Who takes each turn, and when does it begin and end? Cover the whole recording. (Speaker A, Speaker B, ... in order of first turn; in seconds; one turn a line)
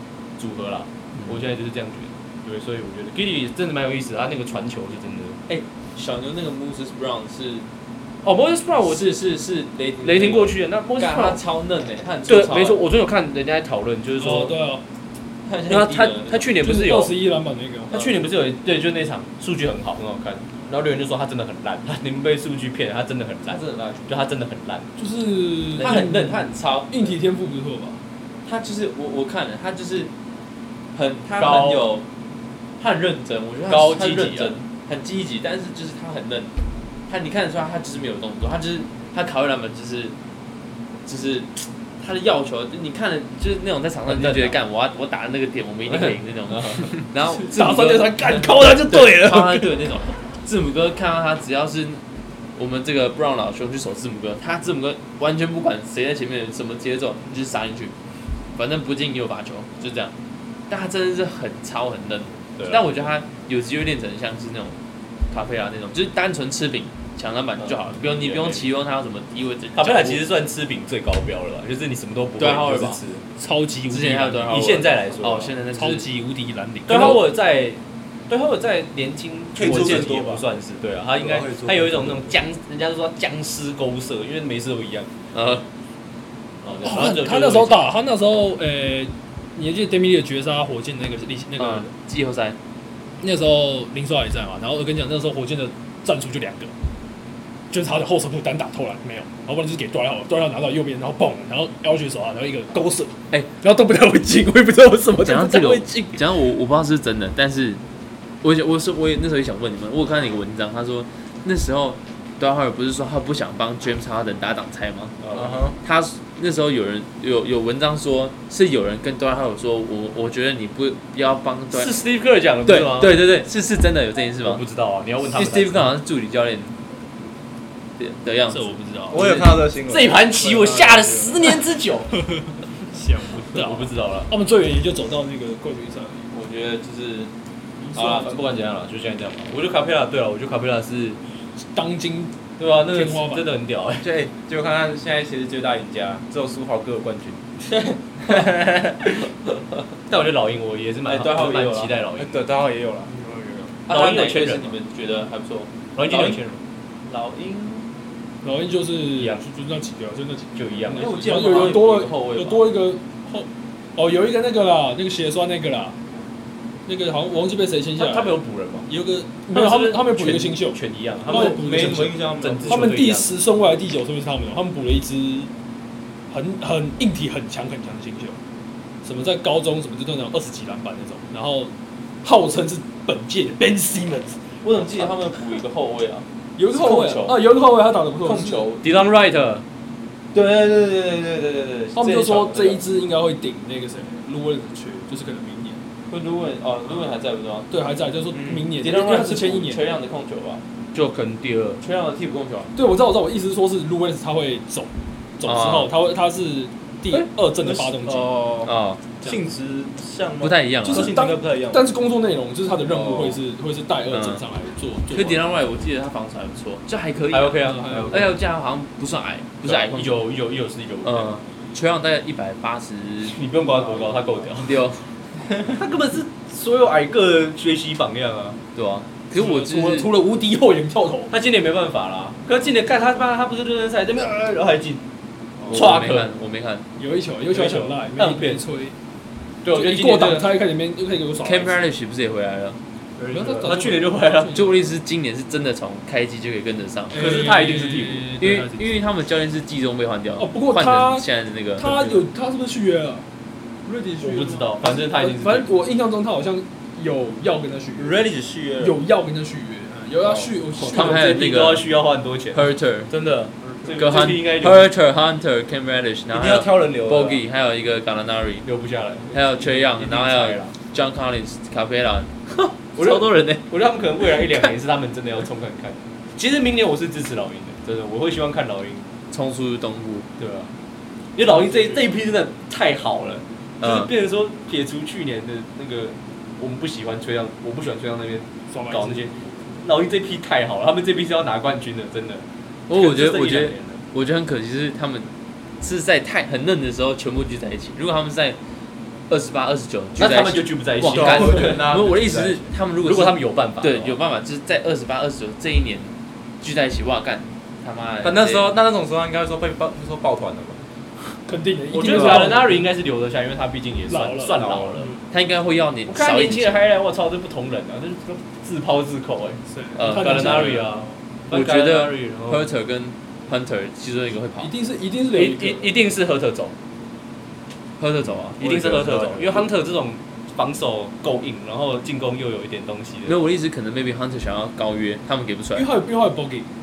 Speaker A: 0.4-5.4
Speaker B: 5.5-7.7
Speaker A: 8.2-9.2
Speaker B: 8.8-12.8
Speaker A: 10.0-11.4
Speaker A: 12.3-14.6
Speaker C: 14.2-14.8
Speaker B: 15.4-16.5
Speaker A: 15.7-17.1
Speaker C: 16.6-18.1
Speaker A: 17.9-24.9
Speaker B: 23.5-24.0
Speaker C: 25.0-28.0
Speaker B: 25.8-27.1
Speaker A: 25.8-26.4
Speaker B: 28.4-30.1
Speaker B: 30.9-32.0
Speaker A: 31.3-31.9
Speaker B: 32.8-36.5
Speaker A: 33.7-34.5
Speaker B: 37.1-40.1
Speaker B: 41.0-52.0
Speaker A: 44.0-44.6
Speaker A: 45.9-46.9
Speaker C: 47.4-49.8
Speaker B: 52.5-58.0
Speaker B: 58.5-60.1
Speaker B: 60.7-64.8
Speaker A: 62.6-63.0
Speaker B: 65.3-70.2
Speaker A: 67.6-68.7
Speaker A: 69.7-73.2
Speaker B: 72.4-73.0
Speaker C: 73.4-74.5
Speaker B: 73.9-76.1
Speaker A: 74.5-75.5
Speaker C: 75.7-77.3
Speaker A: 76.9-85.2
Speaker B: 76.9-77.2
Speaker D: 79.5-80.5
Speaker D: 81.1-82.4
Speaker B: 85.3-85.6
Speaker A: 86.6-87.8
Speaker C: 86.8-91.9
Speaker B: 91.6-92.6
Speaker C: 93.2-96.7
Speaker C: 97.7-106.2
Speaker B: 105.2-107.8
Speaker B: 108.4-115.2
Speaker A: 115.2-115.6
Speaker D: 115.3-115.8
Speaker B: 115.8-121.9
Speaker A: 121.7-123.3
Speaker B: 122.7-124.6
Speaker A: 124.4-125.9
Speaker B: 125.3-126.7
Speaker B: 128.0-129.4
Speaker C: 128.5-129.4
Speaker D: 129.1-131.3
Speaker A: 129.8-132.1
Speaker C: 132.2-136.3
Speaker A: 133.5-134.3
Speaker B: 136.3-137.3
Speaker C: 137.8-138.3
Speaker A: 137.9-141.2
Speaker B: 137.9-138.3
Speaker C: 141.7-143.5
Speaker A: 142.6-144.1
Speaker D: 144.0-147.4
Speaker D: 148.2-149.2
Speaker A: 150.1-152.4
Speaker B: 151.1-151.9
Speaker D: 152.2-153.1
Speaker C: 153.2-153.7
Speaker B: 153.9-156.4
Speaker A: 153.9-154.8
Speaker A: 155.9-156.6
Speaker B: 157.1-157.9
Speaker C: 158.4-165.9
Speaker A: 159.1-159.4
Speaker A: 160.6-161.8
Speaker B: 160.9-162.7
Speaker C: 166.9-175.5
Speaker A: 167.9-168.9
Speaker A: 169.5-173.3
Speaker D: 171.3-172.9
Speaker C: 176.3-178.4
Speaker C: 179.0-181.7
Speaker C: 182.2-184.6
Speaker A: 184.6-185.1
Speaker B: 184.7-187.4
Speaker C: 186.6-188.7
Speaker D: 188.3-188.9
Speaker A: 188.8-189.6
Speaker D: 190.3-192.8
Speaker C: 191.9-195.8
Speaker B: 196.1-197.7
Speaker C: 197.7-199.9
Speaker B: 198.6-200.6
Speaker A: 200.9-201.8
Speaker B: 201.8-202.7
Speaker C: 202.7-208.3
Speaker B: 205.4-205.9
Speaker D: 207.6-211.8
Speaker B: 208.6-209.0
Speaker B: 210.4-211.1
Speaker C: 210.8-215.4
Speaker D: 212.8-213.4
Speaker B: 214.1-214.4
Speaker B: 215.1-220.2
Speaker A: 217.3-218.4
Speaker C: 217.6-218.3
Speaker A: 219.6-221.4
Speaker B: 221.0-223.4
Speaker A: 223.2-224.8
Speaker C: 223.8-224.4
Speaker B: 224.6-225.1
Speaker A: 225.7-228.6
Speaker B: 228.7-230.1
Speaker C: 229.3-231.3
Speaker A: 231.3-235.1
Speaker C: 235.6-235.9
Speaker B: 235.7-236.8
Speaker A: 235.7-236.3
Speaker C: 237.0-238.9
Speaker A: 237.5-238.6
Speaker A: 239.6-240.5
Speaker C: 239.7-241.8
Speaker B: 241.4-242.8
Speaker A: 243.3-244.6
Speaker C: 243.3-244.9
Speaker B: 244.5-247.4
Speaker C: 247.1-248.9
Speaker A: 247.1-248.3
Speaker B: 248.4-252.2
Speaker C: 250.4-251.3
Speaker C: 251.8-253.2
Speaker C: 253.9-258.2
Speaker A: 254.2-255.7
Speaker D: 257.9-259.0
Speaker C: 258.8-261.4
Speaker D: 260.2-260.5
Speaker A: 260.8-263.3
Speaker B: 260.8-261.9
Speaker B: 262.5-263.1
Speaker A: 263.9-264.9
Speaker B: 264.0-268.7
Speaker A: 266.3-267.4
Speaker A: 268.6-270.7
Speaker B: 269.3-273.6
Speaker A: 272.9-279.1
Speaker B: 274.4-274.7
Speaker B: 279.3-280.3
Speaker A: 280.4-280.7
Speaker A: 281.4-294.0
Speaker B: 283.8-284.1
Speaker C: 288.7-289.8
Speaker B: 292.9-295.3
Speaker B: 295.8-298.6
Speaker B: 299.3-308.8
Speaker A: 300.2-301.9
Speaker D: 301.0-302.7
Speaker A: 303.0-304.2
Speaker D: 308.2-310.8
Speaker C: 311.4-312.8
Speaker A: 311.9-315.1
Speaker C: 314.1-315.2
Speaker B: 315.3-316.8
Speaker A: 316.1-322.7
Speaker C: 319.7-321.1
Speaker B: 319.9-320.9
Speaker B: 321.5-324.7
Speaker C: 324.6-325.9
Speaker A: 325.3-326.7
Speaker B: 328.0-329.7
Speaker A: 328.6-333.4
Speaker B: 333.3-335.9
Speaker C: 335.7-336.7